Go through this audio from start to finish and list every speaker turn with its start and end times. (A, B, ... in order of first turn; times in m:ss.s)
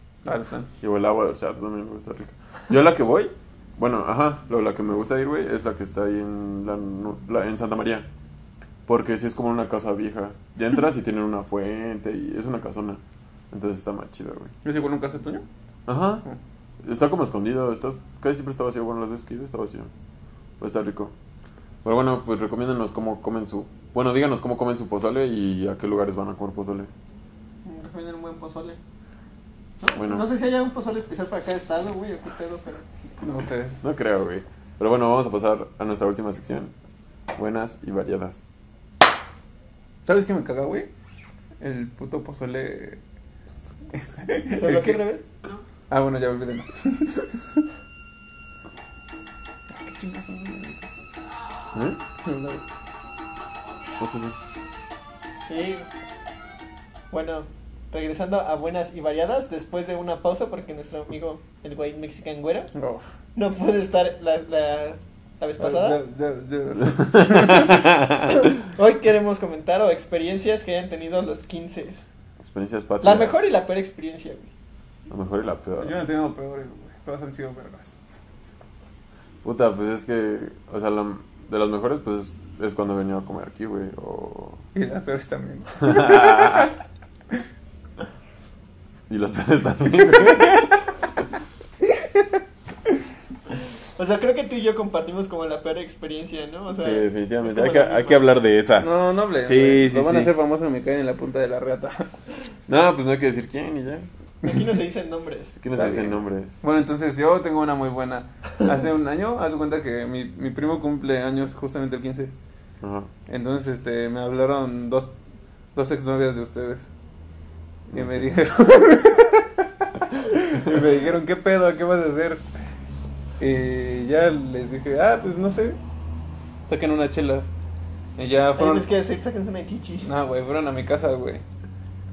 0:00.2-0:00.7 A
0:00.8-0:08.1 B
0:08.8-0:14.5 B
0:14.6-0:15.4 A
0:15.8-0:16.2 B
0:16.8-0:19.9 B
0:20.6-0:21.1 B
0:21.8-0:26.9 B
0:27.6-0:28.8 C
0:29.8-0:32.9 C
0:29.9-0:30.3 B
0:33.2-0:33.8 A
0:33.8-0:36.7 B
0:37.4-0:38.4 B
0:40.0-0:40.9 A
0:41.6-0:43.0 A
0:43.9-0:45.0 A
0:44.5-0:45.2 C
0:45.9-0:47.6 A
0:49.8-0:50.9 A
0:51.7-0:52.0 B
0:52.2-0:52.6 A
0:54.0-0:54.4 B
0:55.5-0:55.9 C
0:57.1-1:02.7 C
1:02.7-1:03.0 A
1:03.3-1:06.0 C
1:05.6-1:07.8 A
1:06.9-1:08.4 B
1:08.3-1:12.1 C
1:12.4-1:13.4 B
1:13.0-1:14.5 C
1:15.1-1:16.0 B
1:15.8-1:17.9 A
1:19.4-1:24.6 B
1:24.7-1:26.7 A
1:25.8-1:26.7 B
1:29.1-1:30.7 B
1:34.0-1:38.3 C
1:36.7-1:38.9 B
1:38.8-1:42.1 A
1:39.4-1:40.3 B
1:42.7-1:44.1 B
1:44.4-1:45.6 C
1:45.6-1:46.6 B
1:45.8-1:52.3 A
1:52.8-1:53.1 B
1:53.3-1:55.1 A
1:55.7-1:56.9 A
1:57.9-1:59.6 A
1:57.9-1:58.2 B
2:00.2-2:02.4 A
2:03.4-2:05.8 A
2:06.6-2:07.5 A
2:08.2-2:08.9 A
2:08.6-2:10.1 C
2:10.0-2:11.4 A